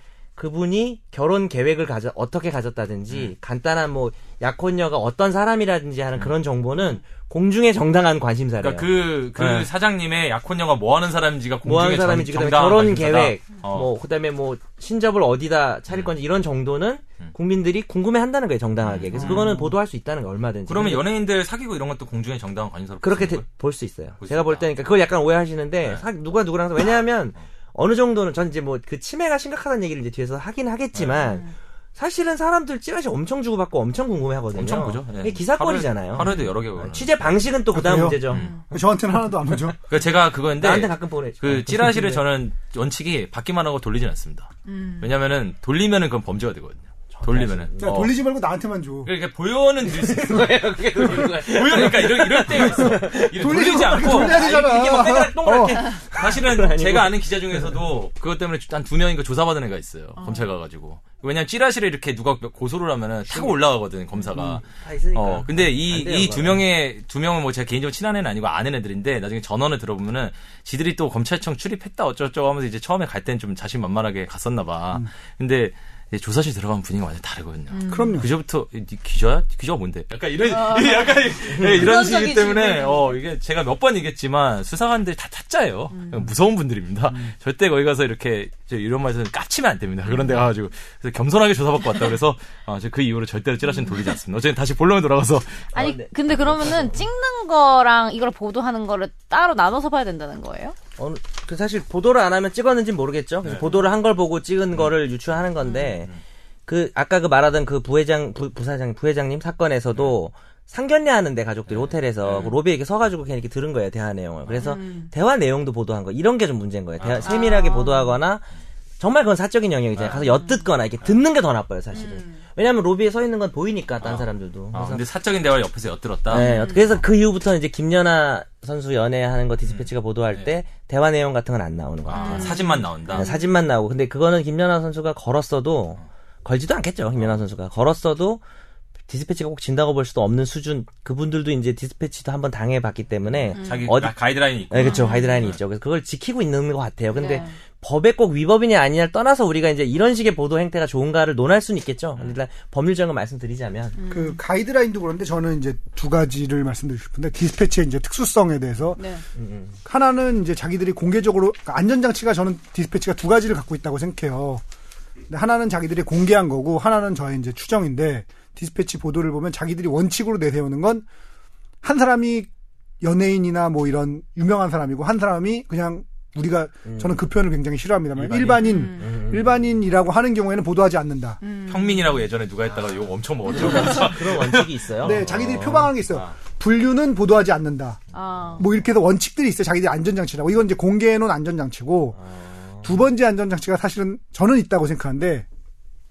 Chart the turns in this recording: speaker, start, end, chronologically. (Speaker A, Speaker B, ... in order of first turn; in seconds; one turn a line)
Speaker A: 0.3-9.7
Speaker B: 8.6-13.9
Speaker A: 11.6-21.0
Speaker B: 18.8-19.6
Speaker C: 19.2-19.6
Speaker B: 20.7-23.4
Speaker A: 23.0-38.5
Speaker B: 24.2-24.7
Speaker B: 30.9-31.2
Speaker D: 31.2-31.5
Speaker B: 34.5-37.4
Speaker C: 37.7-39.8
Speaker B: 38.3-38.5
Speaker D: 38.4-38.6
Speaker B: 39.9-48.1
Speaker A: 40.6-42.2
Speaker D: 44.7-45.1
Speaker A: 47.1-48.0
Speaker C: 47.8-49.1
Speaker B: 49.0-54.5
Speaker A: 49.8-57.7
Speaker C: 53.3-55.9
Speaker B: 56.1-95.7
Speaker D: 60.2-60.5
Speaker A: 63.3-63.5
Speaker D: 64.1-64.5
Speaker A: 64.7-66.6
Speaker D: 77.7-78.2
Speaker C: 77.9-78.3
Speaker D: 80.5-83.1
Speaker D: 85.9-86.3
Speaker A: 95.7-97.0
Speaker D: 95.7-100.8
Speaker A: 101.0-106.1
Speaker D: 105.6-106.0
Speaker A: 106.7-118.4
Speaker B: 111.7-112.6
Speaker D: 114.5-115.1
Speaker B: 117.0-117.4
Speaker D: 117.2-118.1
Speaker A: 119.0-125.0
Speaker B: 120.0-120.3
Speaker D: 120.3-120.6
Speaker D: 121.9-122.4
Speaker B: 124.0-127.0
Speaker A: 126.3-138.4
Speaker D: 126.3-126.9
Speaker B: 129.7-130.5
Speaker B: 132.1-133.3
Speaker D: 132.1-133.5
Speaker A: 139.1-153.9
Speaker D: 143.5-143.9
Speaker B: 143.5-145.6
Speaker D: 144.8-145.4
Speaker D: 147.1-147.5
Speaker D: 154.0-154.4
Speaker C: 154.1-159.0
Speaker D: 159.0-159.2
Speaker A: 159.3-159.7
Speaker C: 159.8-164.6
Speaker C: 165.3-171.1
Speaker C: 171.8-172.5
Speaker C: 173.0-181.4
Speaker A: 176.8-177.1
Speaker B: 178.2-178.9
Speaker D: 178.6-179.0
Speaker A: 179.0-179.5
Speaker D: 181.4-182.2
Speaker B: 181.7-186.3
Speaker A: 183.5-185.8
Speaker C: 185.0-188.0
Speaker D: 188.1-188.7
Speaker C: 188.6-192.2
Speaker A: 192.3-192.8
Speaker C: 192.8-195.4